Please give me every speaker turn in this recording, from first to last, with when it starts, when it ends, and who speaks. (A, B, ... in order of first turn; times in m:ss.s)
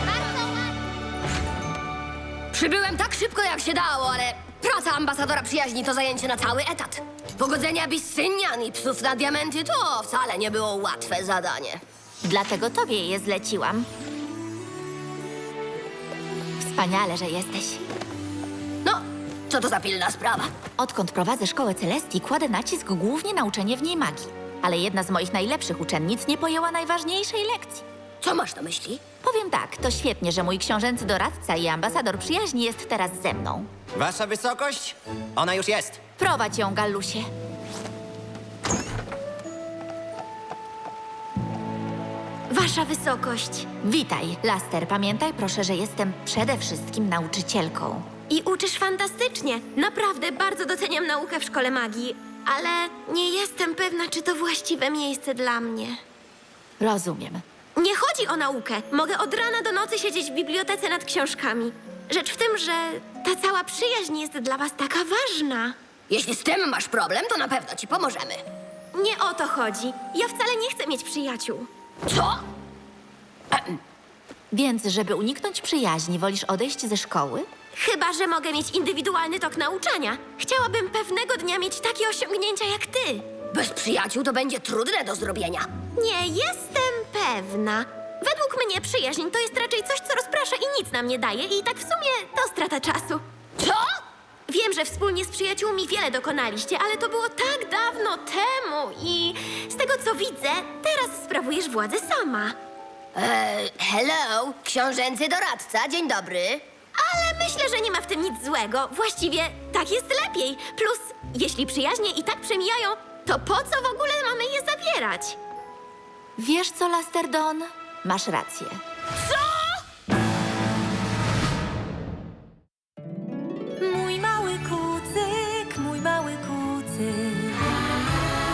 0:02.5-0:11.8 A
0:12.2-0:13.9 B
0:16.6-0:17.9 B
0:18.8-0:20.5 A
0:20.8-0:27.8 B
0:28.2-0:29.0 A
0:29.2-0:33.7 B
0:34.0-0:36.0 C
0:36.2-0:37.3 B
0:42.5-0:43.7 D
0:43.8-0:48.1 B
0:48.3-0:56.0 D
0:56.8-0:57.4 B
0:57.8-1:05.8 D
1:06.1-1:08.4 A
1:08.9-1:11.7 D
1:12.1-1:12.4 A
1:14.5-1:17.5 B
1:17.8-1:23.3 D
1:23.5-1:25.7 A
1:26.0-1:33.2 D
1:33.6-1:34.0 A
1:34.5-1:42.6 D
1:43.2-1:46.6 A
1:46.9-1:55.4 D
1:56.4-1:58.8 B
2:03.8-2:06.2 E